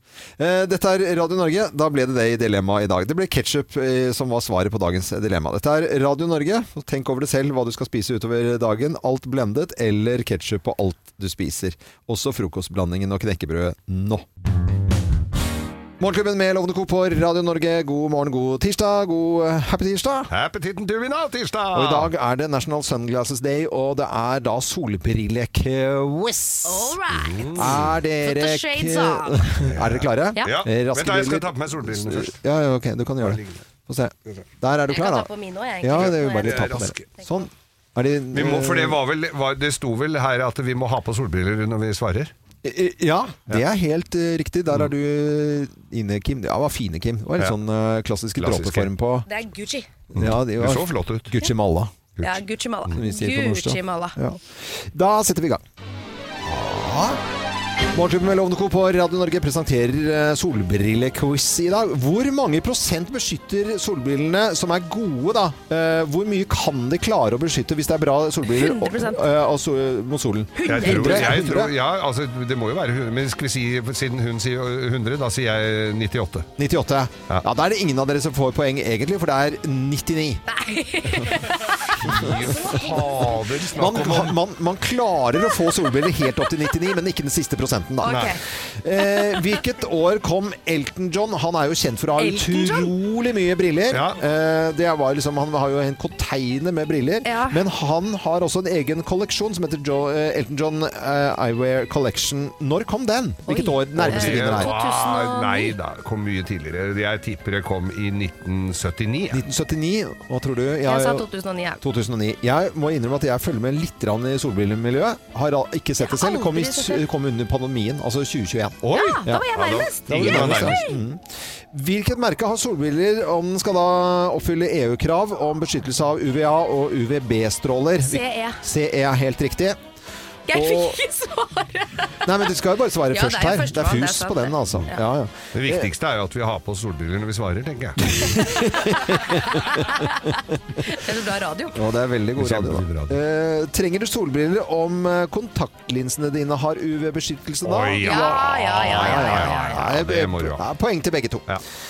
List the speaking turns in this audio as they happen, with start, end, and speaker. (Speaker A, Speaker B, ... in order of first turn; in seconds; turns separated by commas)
Speaker A: 0.4-14.2, Speaker A: 16.0-20.3, Speaker B: 20.3-22.1, Speaker A: 21.7-27.0, Speaker C: 26.6-29.7, Speaker B: 27.1-28.0, Speaker A: 27.6-35.3, Speaker B: 29.6-32.4, Speaker B: 33.2-33.6, Speaker C: 34.9-36.7, Speaker A: 35.8-39.0, Speaker B: 35.9-37.1, Speaker B: 38.3-42.3, Speaker A: 42.6-49.3, Speaker B: 48.4-48.9, Speaker C: 49.3-49.9, Speaker B: 50.1-51.3, Speaker A: 50.1-52.0, Speaker B: 52.2-53.0, Speaker C: 52.2-54.2, Speaker A: 52.9-55.6, Speaker A: 56.4-57.2, Speaker A: 57.9-71.7, Speaker C: 68.5-69.2, Speaker C: 70.6-71.6, Speaker B: 70.7-76.5, Speaker A: 76.6-80.4, Speaker C: 80.5-83.3, Speaker B: 82.0-84.4, Speaker A: 82.0-82.3, Speaker A: 83.7-104.7, Speaker C: 88.0-88.4, Speaker B: 88.1-88.3, Speaker C: 89.0-89.4, Speaker C: 92.2-92.9, Speaker B: 93.9-94.2, Speaker C: 97.2-97.6, Speaker C: 103.5-105.8, Speaker B: 104.0-109.4, Speaker A: 109.3-111.3, Speaker C: 110.8-111.8, Speaker A: 111.8-129.8, Speaker C: 116.0-117.0, Speaker B: 118.8-120.9, Speaker C: 118.9-121.0, Speaker C: 128.0-128.6, Speaker C: 130.5-132.2, Speaker A: 130.5-131.0, Speaker A: 132.2-135.9, Speaker C: 133.1-135.0, Speaker B: 135.5-138.5, Speaker A: 138.2-139.7, Speaker C: 139.1-140.0, Speaker C: 140.8-141.8, Speaker A: 141.7-151.6, Speaker B: 142.4-143.2, Speaker B: 147.6-150.6, Speaker C: 148.0-149.9